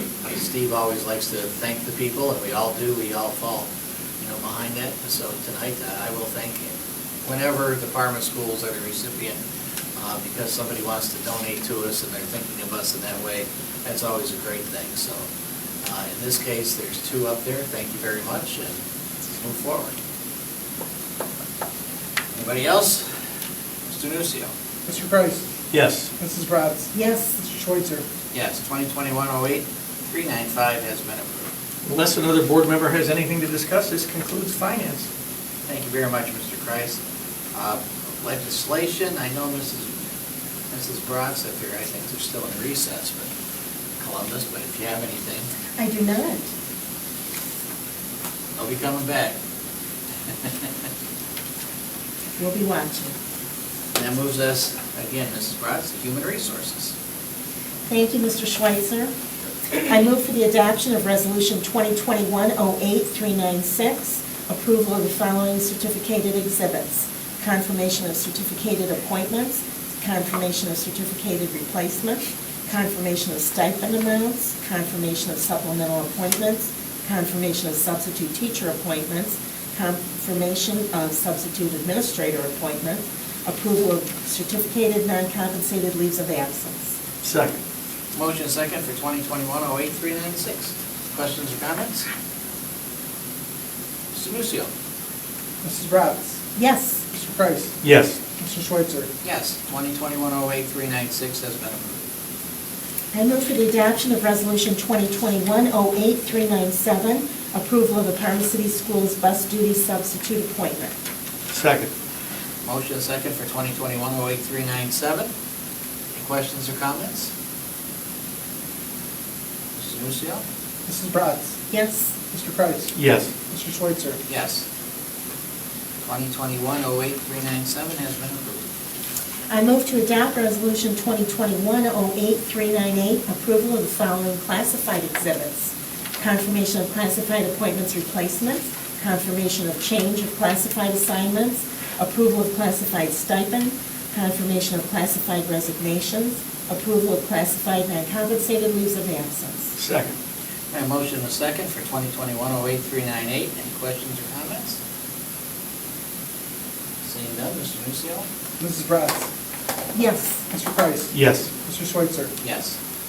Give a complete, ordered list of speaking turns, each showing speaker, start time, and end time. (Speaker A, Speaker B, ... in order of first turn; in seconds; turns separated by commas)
Speaker A: 0.2-9.4, Speaker A: 9.9-15.3, Speaker A: 15.8-19.9, Speaker A: 22.3-23.1, Speaker A: 23.9-24.5, Speaker B: 24.9-25.4, Speaker C: 25.7-26.1, Speaker B: 26.2-28.0, Speaker D: 26.9-27.3, Speaker A: 28.3-31.5, Speaker C: 31.8-35.1, Speaker A: 35.7-37.0, Speaker A: 37.5-39.9, Speaker A: 40.7-43.3, Speaker A: 44.0-45.5, Speaker D: 45.8-46.5, Speaker A: 48.6-49.4, Speaker A: 50.3-50.7, Speaker D: 52.4-53.1, Speaker A: 53.9-56.9, Speaker D: 57.9-59.1, Speaker D: 59.8-86.9, Speaker C: 87.2-87.5, Speaker A: 88.1-92.1, Speaker A: 94.1-94.7, Speaker B: 95.6-96.4, Speaker D: 96.5-97.0, Speaker B: 97.1-97.8, Speaker C: 97.8-98.2, Speaker B: 98.4-99.1, Speaker A: 99.2-102.0, Speaker D: 103.1-110.9, Speaker C: 111.5-111.9, Speaker A: 112.6-115.3, Speaker A: 116.1-117.3, Speaker A: 119.8-120.4, Speaker B: 120.8-121.5, Speaker D: 121.7-122.1, Speaker B: 122.3-122.9, Speaker C: 122.9-123.3, Speaker B: 123.5-124.2, Speaker A: 124.3-124.6, Speaker A: 126.0-128.6, Speaker D: 129.5-149.7, Speaker C: 149.8-150.1, Speaker A: 150.7-154.8, Speaker A: 157.0-158.2, Speaker B: 158.6-159.3, Speaker D: 159.9-160.4, Speaker B: 160.5-162.3, Speaker C: 161.1-161.5, Speaker A: 162.4-162.8